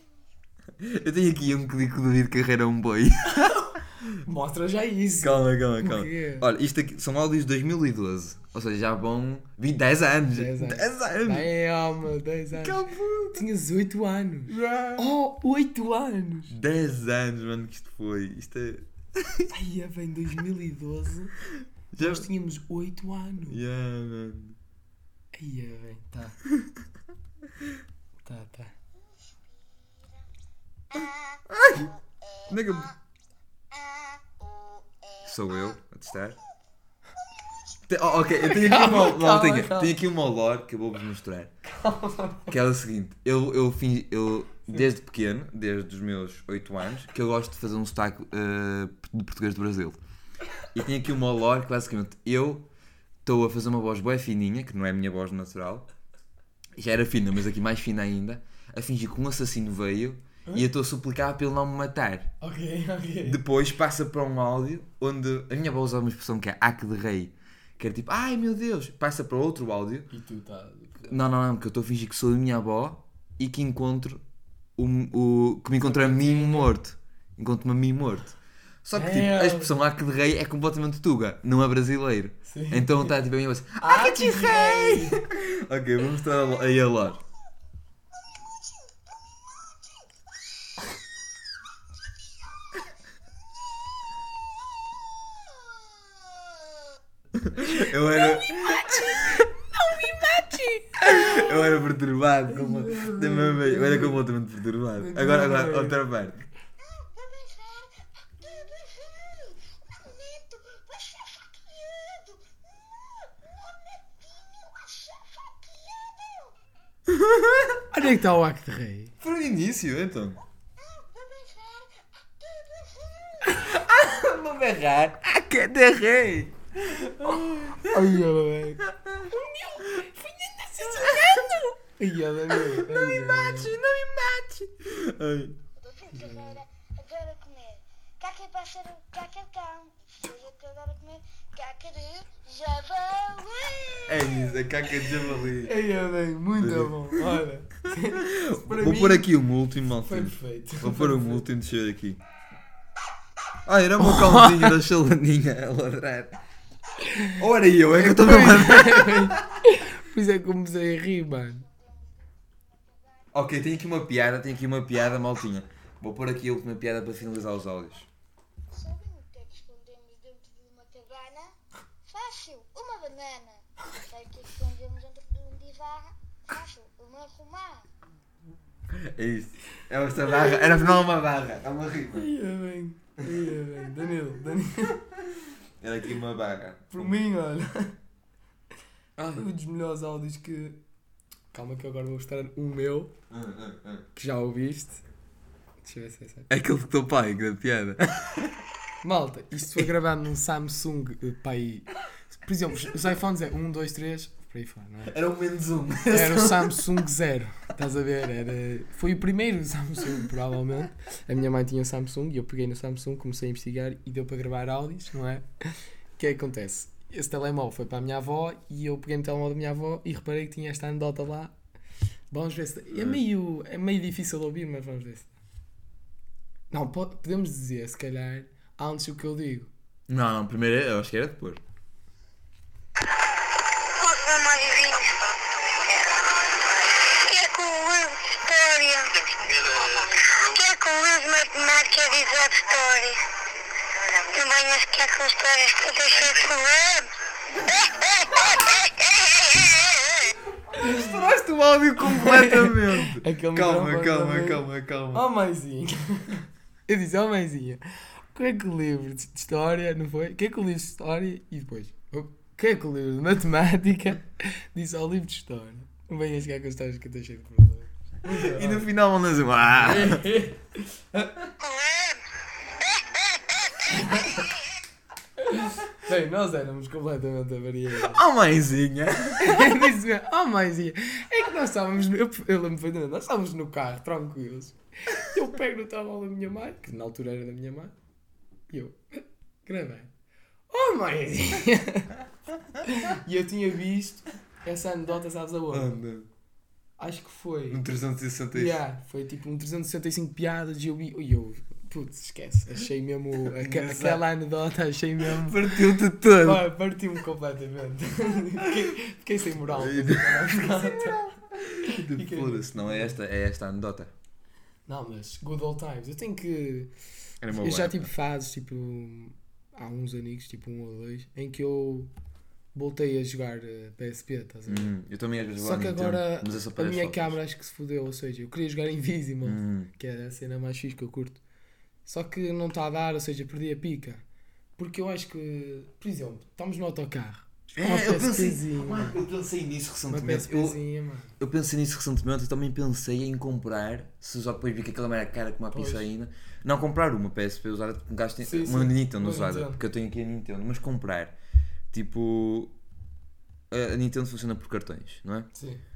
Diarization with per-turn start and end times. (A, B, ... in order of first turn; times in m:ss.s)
0:00.8-0:04.0 A
0:03.2-0:06.5 B
0:05.2-0:11.5 A
0:10.3-0:16.6 B
0:12.5-0:13.4 A
0:14.5-0:15.1 A
0:16.5-0:19.5 A
0:19.5-0:21.3 B
0:21.9-0:22.3 A
0:22.0-0:23.6 B
0:23.5-0:24.6 A
0:25.3-0:26.4 B
0:28.2-0:28.7 B
0:29.0-0:30.2 C
0:30.9-0:32.9 C
0:31.5-0:31.9 A
0:32.5-0:32.9 A
0:33.7-0:35.8 C
0:35.2-0:36.4 A
0:37.3-0:37.8 C
0:37.9-0:41.5 A
0:38.4-0:39.9 B
0:41.6-0:42.5 B
0:42.5-0:50.0 A
0:50.7-0:52.6 A
0:53.2-0:55.8 A
0:56.8-1:02.3 A
1:02.4-1:03.4 B
1:03.2-1:10.1 A
1:10.1-1:11.2 B
1:11.0-1:14.2 A
1:14.8-1:27.2 A
1:15.8-1:16.7 B
1:18.9-1:19.7 B
1:22.4-1:23.1 B
1:23.8-1:25.2 B
1:28.1-1:30.2 C
1:32.1-1:32.8 C
1:35.2-1:36.7 C
1:37.3-1:39.5 A
1:38.1-1:41.6 B
1:41.0-1:46.5 A
1:42.5-1:44.2 B
1:45.0-1:46.0 B
1:46.8-1:56.6 C
1:57.1-1:57.8 A
1:57.9-1:59.1 B
1:59.2-2:00.4 A
2:00.8-2:03.8 C
2:03.5-2:08.1 A
2:07.8-2:13.8 B
2:08.8-2:09.3 A
2:10.8-2:11.6 A
2:12.5-2:15.6 A
2:15.8-2:25.3 C
2:16.1-2:16.5 B
2:24.0-2:25.7 A
2:25.6-2:29.3 B
2:26.6-2:32.2 A
2:30.0-2:31.5 B
2:33.6-2:36.4 A
2:34.0-2:34.8 B
2:37.0-2:37.4 B
2:37.3-2:39.4 A
2:38.0-2:41.6 B
2:41.4-2:43.3 C
2:43.3-2:48.1 A
2:48.7-2:51.5 C
2:52.0-2:57.9 C
2:58.9-3:02.3 A
3:02.1-3:05.0 B
3:05.8-3:07.2 A
3:06.9-3:08.0 B
3:09.2-3:09.5 A
3:09.3-3:10.8 B
3:11.5-3:13.1 B
3:13.3-3:14.0 A
3:14.1-3:15.0 B
3:15.8-3:16.5 B
3:16.5-3:18.6 A
3:19.0-3:25.1 B
3:25.0-3:27.0 A
3:26.0-3:41.5 B
3:42.3-3:45.3 B
3:42.9-3:43.2 A
3:46.7-3:49.7 B
3:50.1-3:51.6 A
3:53.8-4:03.2 C
4:04.0-4:07.1 C
4:07.6-4:10.3 C
4:10.7-4:15.2 A
4:10.8-4:11.1 B
4:12.0-4:28.9 B
4:28.3-4:30.3 A
4:29.6-4:31.3 B
4:31.6-4:32.2 C
4:32.8-4:33.9 C
4:33.9-4:34.5 B
4:35.4-4:38.2 B
4:38.0-4:39.9 A
4:39.4-4:47.9 B
4:48.7-4:50.1 B
4:50.7-4:52.2 B
4:52.8-4:56.0 B
4:55.7-4:56.3 A
4:57.0-4:57.8 B
4:57.7-4:58.8 A
4:58.5-5:11.3 B
5:03.4-5:04.2 A
5:05.2-5:06.6 A
5:09.7-5:14.1 A
5:11.8-5:13.1 B
5:14.9-5:16.9 B
5:17.4-5:18.1 A
5:17.5-5:22.1 B
5:22.7-5:24.9 B
5:24.7-5:27.4 A
5:25.6-5:31.4 B
5:29.4-5:29.9 A
5:32.0-5:34.2 B
5:34.8-5:39.2 B
5:37.7-5:40.8 A
5:40.1-5:41.3 B
5:41.4-5:51.3 A
5:45.7-5:46.1 B
5:48.4-5:49.8 B
5:51.9-5:52.7 A
5:53.7-5:55.5 A
5:55.5-5:55.8 B